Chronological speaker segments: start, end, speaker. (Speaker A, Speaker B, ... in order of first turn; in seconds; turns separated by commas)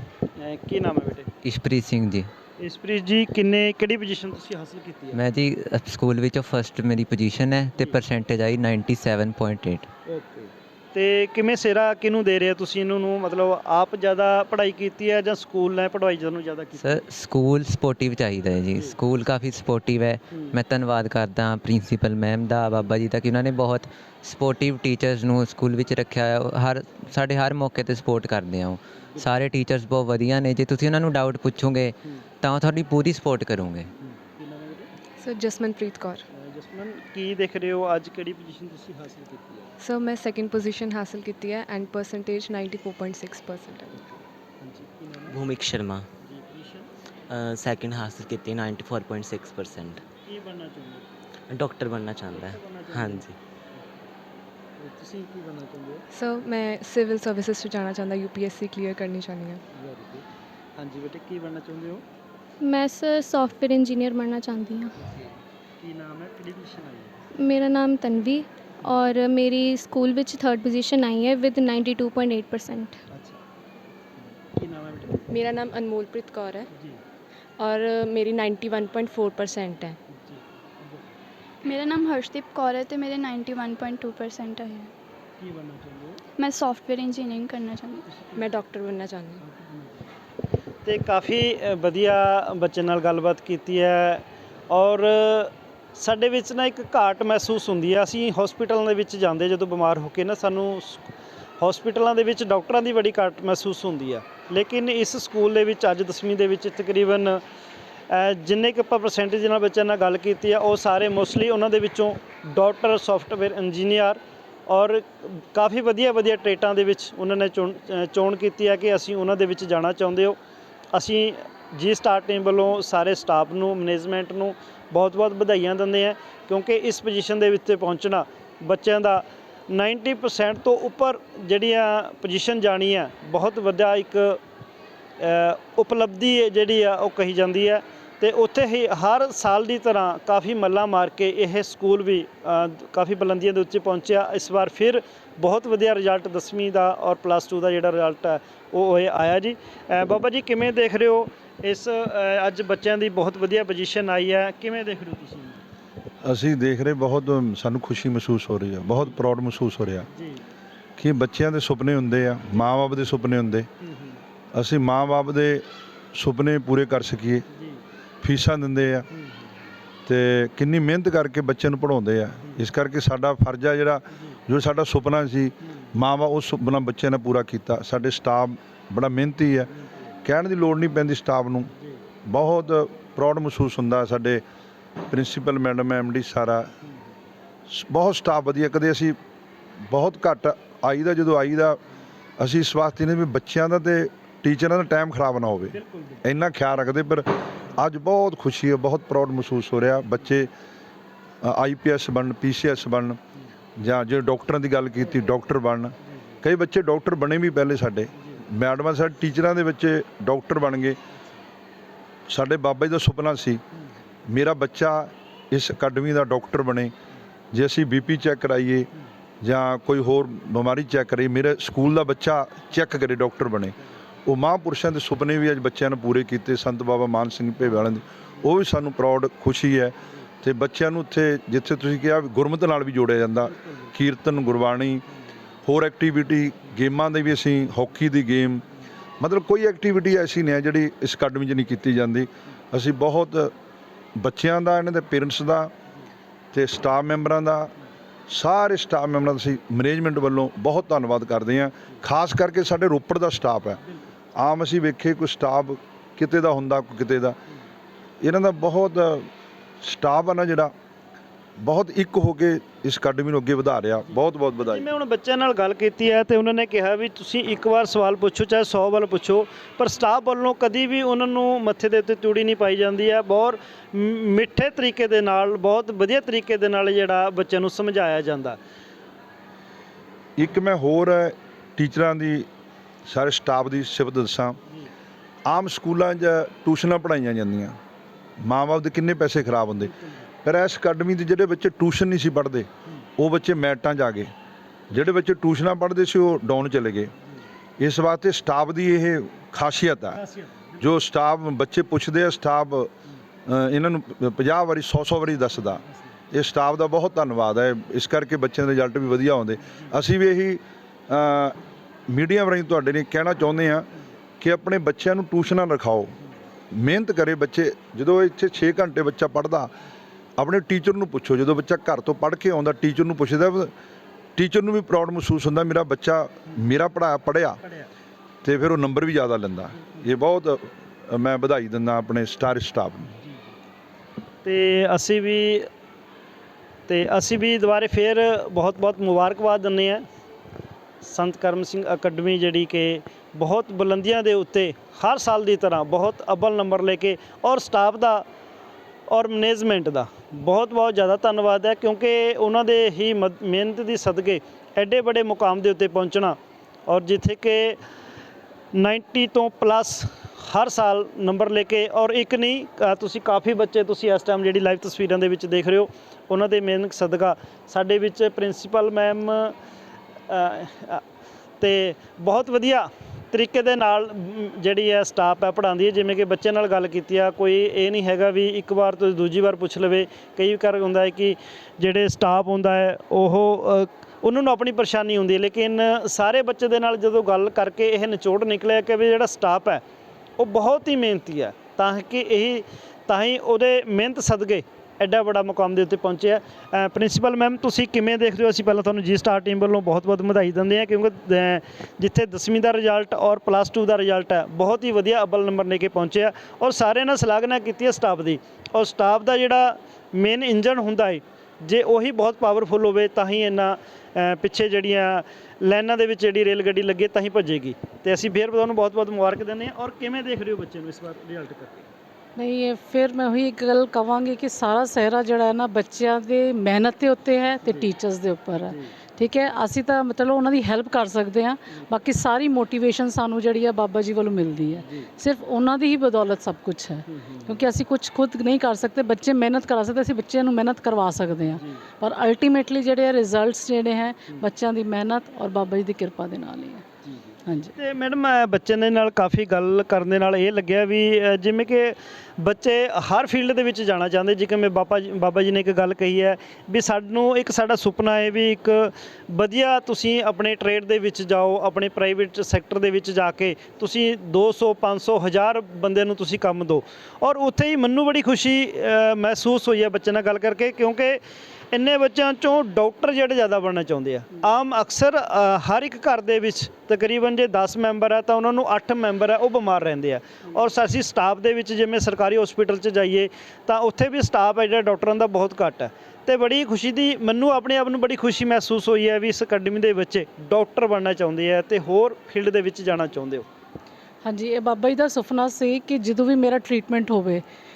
Speaker A: 0.4-1.3, Speaker B: 1.4-2.3, Speaker A: 2.6-5.2, Speaker B: 5.1-9.9, Speaker A: 7.8-8.0, Speaker A: 10.1-17.1, Speaker B: 16.8-33.9, Speaker A: 18.4-19.0, Speaker A: 20.3-20.6, Speaker A: 34.0-34.9, Speaker C: 35.2-36.2, Speaker A: 36.3-39.7, Speaker C: 39.8-44.1, Speaker A: 44.6-45.4, Speaker D: 45.3-46.1, Speaker A: 46.2-46.9, Speaker D: 47.3-50.0, Speaker A: 50.2-51.0, Speaker D: 51.5-53.4, Speaker A: 52.3-53.8, Speaker A: 54.8-56.0, Speaker C: 56.1-59.6, Speaker A: 59.7-60.2, Speaker A: 60.8-62.0, Speaker E: 62.6-64.9, Speaker A: 65.0-67.2, Speaker E: 67.4-72.9, Speaker A: 73.1-73.4, Speaker A: 74.5-75.4, Speaker F: 75.3-76.7, Speaker A: 76.7-77.0, Speaker F: 77.6-80.0, Speaker A: 80.1-81.0, Speaker G: 81.6-84.9, Speaker A: 85.4-86.2, Speaker G: 86.4-88.0, Speaker A: 88.1-88.5, Speaker F: 88.3-89.4, Speaker A: 89.4-90.1, Speaker A: 90.8-107.4, Speaker A: 108.1-120.4, Speaker A: 120.9-134.4, Speaker A: 135.2-155.6, Speaker H: 156.2-160.1, Speaker A: 160.1-160.4, Speaker H: 161.0-163.7, Speaker A: 163.8-164.2, Speaker H: 164.5-167.4, Speaker A: 167.5-167.8, Speaker H: 168.2-169.1, Speaker H: 170.1-179.7, Speaker H: 180.2-181.7, Speaker H: 182.2-184.4, Speaker H: 185.1-186.7, Speaker H: 187.7-189.2, Speaker H: 189.9-191.8, Speaker H: 192.4-200.5, Speaker A: 195.7-196.2, Speaker H: 201.4-203.2, Speaker H: 203.8-211.0, Speaker A: 208.2-208.4, Speaker H: 212.3-213.6, Speaker H: 214.3-216.9, Speaker H: 217.5-218.9, Speaker H: 219.4-235.0, Speaker A: 233.6-233.9, Speaker H: 235.7-238.7, Speaker H: 239.2-243.5, Speaker H: 244.2-245.7, Speaker H: 246.5-247.7, Speaker H: 248.3-253.8, Speaker H: 254.3-257.4, Speaker H: 258.2-259.3, Speaker H: 259.8-260.7, Speaker H: 261.6-264.9, Speaker A: 264.0-278.6, Speaker H: 280.4-282.5, Speaker H: 283.1-284.6, Speaker H: 285.4-287.8, Speaker H: 288.4-289.9, Speaker A: 289.8-290.2, Speaker H: 290.4-294.3, Speaker H: 294.9-297.1, Speaker H: 297.8-300.2, Speaker A: 300.1-300.8, Speaker H: 300.8-302.9, Speaker H: 303.5-311.6, Speaker H: 312.1-313.9, Speaker H: 314.4-316.1, Speaker H: 316.7-319.7, Speaker H: 320.4-323.7, Speaker H: 324.4-327.6, Speaker H: 328.4-333.1, Speaker A: 334.4-335.7, Speaker A: 336.9-340.0, Speaker A: 341.0-348.2, Speaker A: 349.1-357.8, Speaker A: 358.7-369.5, Speaker A: 370.3-371.0, Speaker A: 371.6-389.8, Speaker A: 390.4-421.9, Speaker I: 422.4-446.8, Speaker A: 427.6-427.9, Speaker A: 428.7-428.9, Speaker A: 434.8-435.1, Speaker A: 437.1-437.6, Speaker A: 441.5-441.8, Speaker A: 447.0-471.2, Speaker I: 447.4-447.7, Speaker A: 471.7-493.4, Speaker I: 494.2-497.4